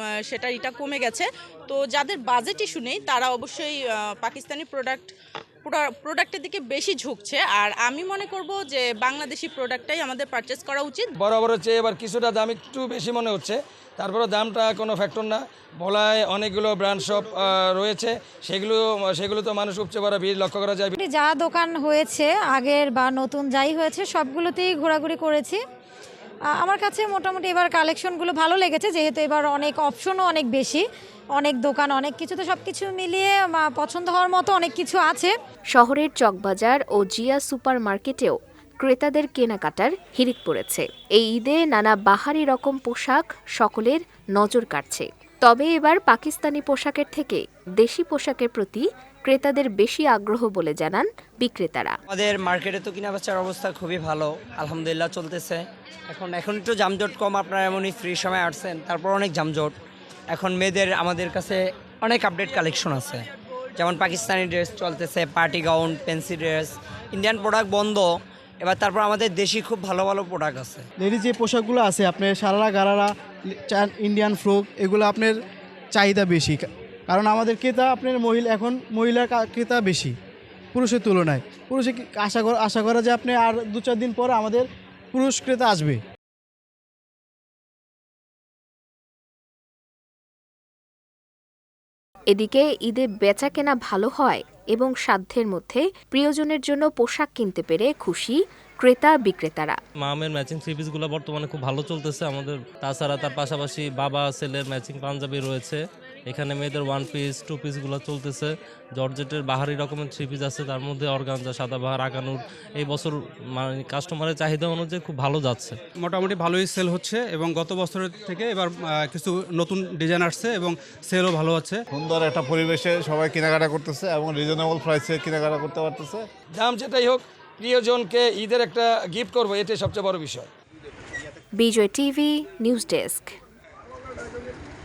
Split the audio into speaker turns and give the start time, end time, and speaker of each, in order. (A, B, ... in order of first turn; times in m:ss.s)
0:00.3-0:05.1 A
0:05.6-0:11.0 A
0:11.2-0:20.9 B
0:21.0-0:25.6 C
0:26.6-0:30.8 C
0:31.4-0:35.3 C
0:35.7-0:51.9 D
0:52.1-0:59.7 E
1:00.3-1:03.2 E
1:03.8-1:08.1 E
1:08.6-1:10.8 E
1:11.0-1:15.4 F
1:15.9-1:20.1 F
1:20.7-1:26.0 F
1:32.3-1:39.8 D
1:40.0-1:55.8 G
1:56.0-2:01.8 H
2:01.9-2:06.2 I
2:06.6-2:10.5 B
2:11.6-2:13.3 D